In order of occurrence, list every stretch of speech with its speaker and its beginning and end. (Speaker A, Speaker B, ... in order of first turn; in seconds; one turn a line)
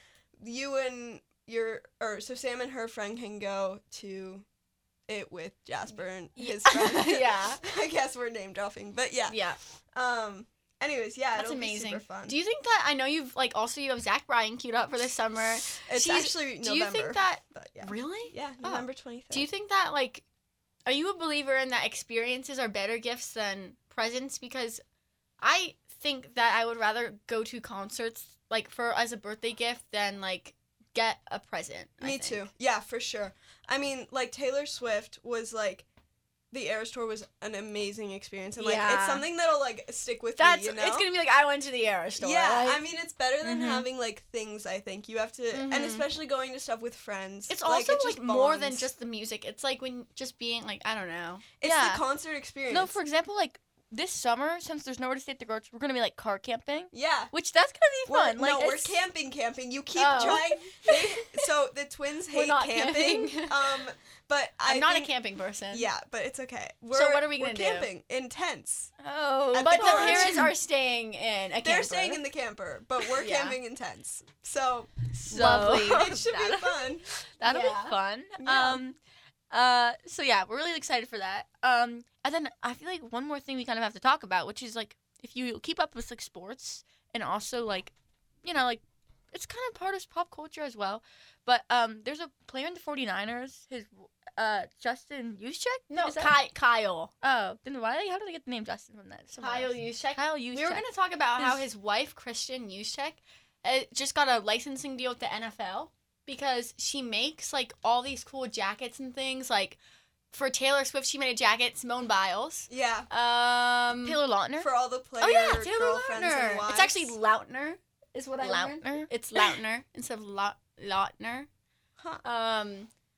Speaker A: 0.4-4.5
Speaker A: 5.1-9.4
Speaker B: 6.6-7.6
Speaker B: 9.3-9.6
Speaker A: 9.9-12.4
Speaker B: 11.3-20.2
Speaker A: 15.8-19.5
Speaker B: 20.9-24.8
Speaker B: 25.4-32.5
Speaker A: 32.0-35.9
Speaker A: 36.5-41.1
Speaker B: 38.6-39.3
Speaker B: 40.4-42.8
Speaker A: 42.2-48.9
Speaker C: 43.4-43.9
Speaker B: 45.5-46.1
Speaker B: 47.5-51.4
Speaker A: 51.6-53.0
Speaker C: 51.6-52.0
Speaker C: 52.7-58.9
Speaker A: 56.9-57.3
Speaker A: 58.0-65.1
Speaker B: 59.9-61.0
Speaker B: 62.3-63.5
Speaker B: 64.6-65.9
Speaker A: 65.7-68.9
Speaker B: 66.9-67.9
Speaker C: 69.0-70.5
Speaker A: 69.5-70.4
Speaker B: 69.6-72.2
Speaker A: 71.6-77.0
Speaker B: 73.1-73.6
Speaker C: 75.3-76.2
Speaker B: 75.3-76.8
Speaker C: 77.4-79.0
Speaker B: 77.4-77.9
Speaker A: 78.4-78.8
Speaker C: 79.5-87.9
Speaker C: 88.4-96.3
Speaker B: 95.9-97.1
Speaker C: 97.2-100.8
Speaker B: 99.4-109.8
Speaker C: 101.4-101.6
Speaker B: 110.3-114.2
Speaker A: 112.7-113.1
Speaker C: 114.0-114.7
Speaker A: 114.6-117.1
Speaker B: 115.2-121.5
Speaker C: 118.4-119.5
Speaker B: 122.2-122.9